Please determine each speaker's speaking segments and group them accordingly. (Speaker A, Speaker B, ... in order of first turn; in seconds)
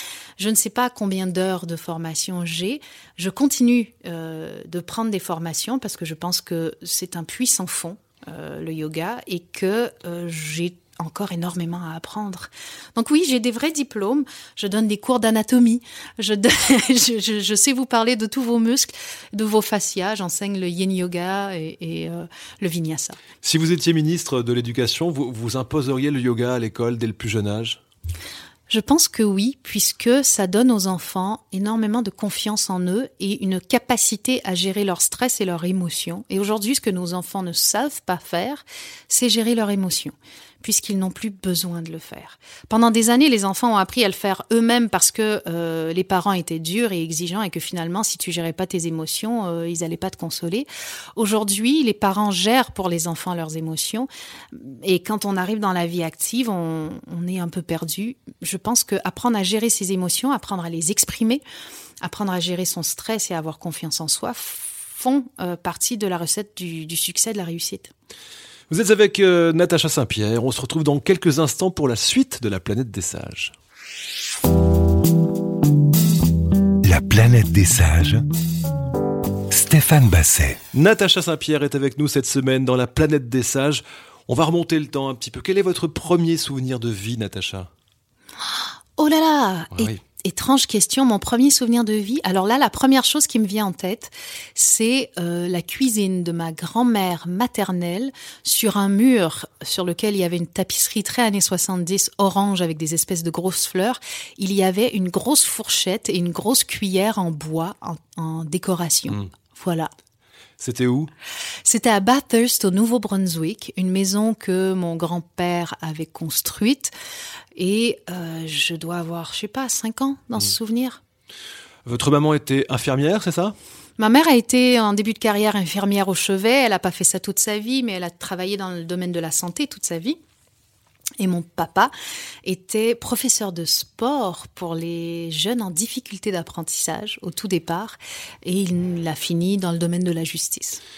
Speaker A: 0.4-23.2, 28.7-61.4, 62.0-67.9, 88.4-109.9, 111.7-116.9, 117.6-121.0, 124.0-130.2, 131.2-131.9, 132.4-140.8
Speaker B: 23.4-27.8, 68.7-73.5, 80.7-87.7, 110.6-111.1, 121.8-123.5
Speaker C: 76.8-78.3, 79.5-80.6